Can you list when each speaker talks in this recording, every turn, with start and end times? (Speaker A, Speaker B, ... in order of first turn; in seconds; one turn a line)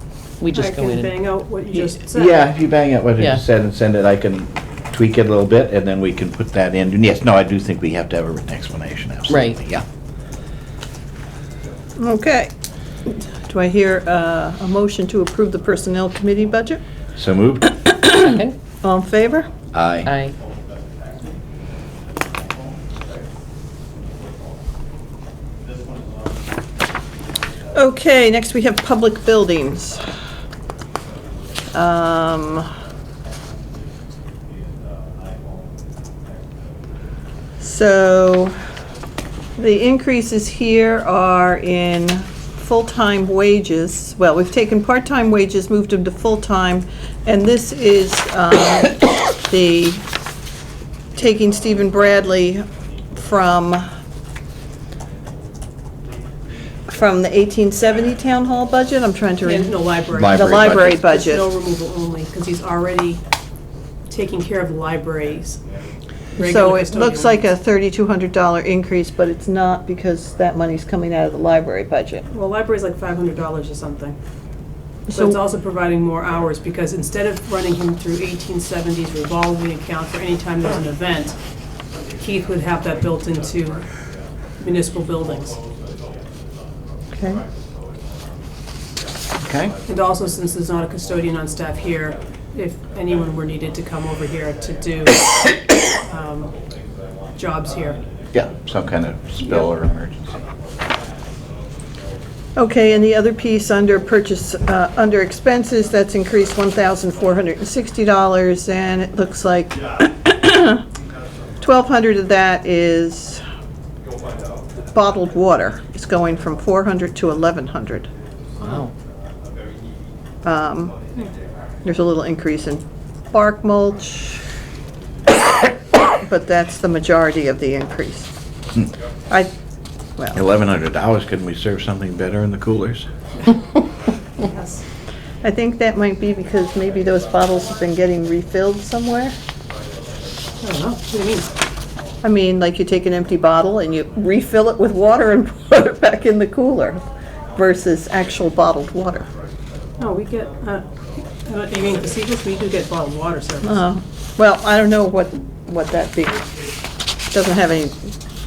Speaker A: 0.4-1.1
Speaker B: 0.5-2.5
Speaker C: 2.1-9.8
Speaker A: 9.3-9.6
Speaker D: 12.0-12.5
Speaker D: 13.1-16.8
Speaker C: 17.2-17.8
Speaker D: 17.9-19.5
Speaker A: 18.2-18.5
Speaker C: 19.7-20.1
Speaker A: 20.1-20.3
Speaker D: 27.7-30.1
Speaker D: 31.7-32.7
Speaker D: 37.6-38.5
Speaker D: 39.6-50.0
Speaker D: 51.1-53.9
Speaker D: 56.9-61.5
Speaker B: 59.4-63.2
Speaker C: 60.1-61.0
Speaker B: 64.1-65.6
Speaker B: 66.3-67.4
Speaker D: 66.4-72.2
Speaker B: 72.3-74.2
Speaker D: 75.1-75.4
Speaker B: 75.1-81.4
Speaker B: 82.2-83.8
Speaker B: 84.6-85.6
Speaker D: 87.1-87.4
Speaker C: 89.4-89.7
Speaker B: 89.8-96.5
Speaker B: 97.3-98.0
Speaker C: 98.3-100.4
Speaker D: 102.5-110.8
Speaker D: 111.6-113.4
Speaker D: 114.9-118.1
Speaker A: 118.6-118.9
Speaker D: 120.4-120.9
Speaker D: 121.8-124.4
Speaker D: 126.2-128.3
Speaker C: 130.3-133.1
Speaker B: 134.4-134.8
Speaker D: 135.4-139.3
Speaker B: 140.6-141.5
Speaker D: 142.2-147.0
Speaker D: 147.6-149.3
Speaker B: 150.0-153.8
Speaker D: 153.6-156.6
Speaker D: 157.3-158.1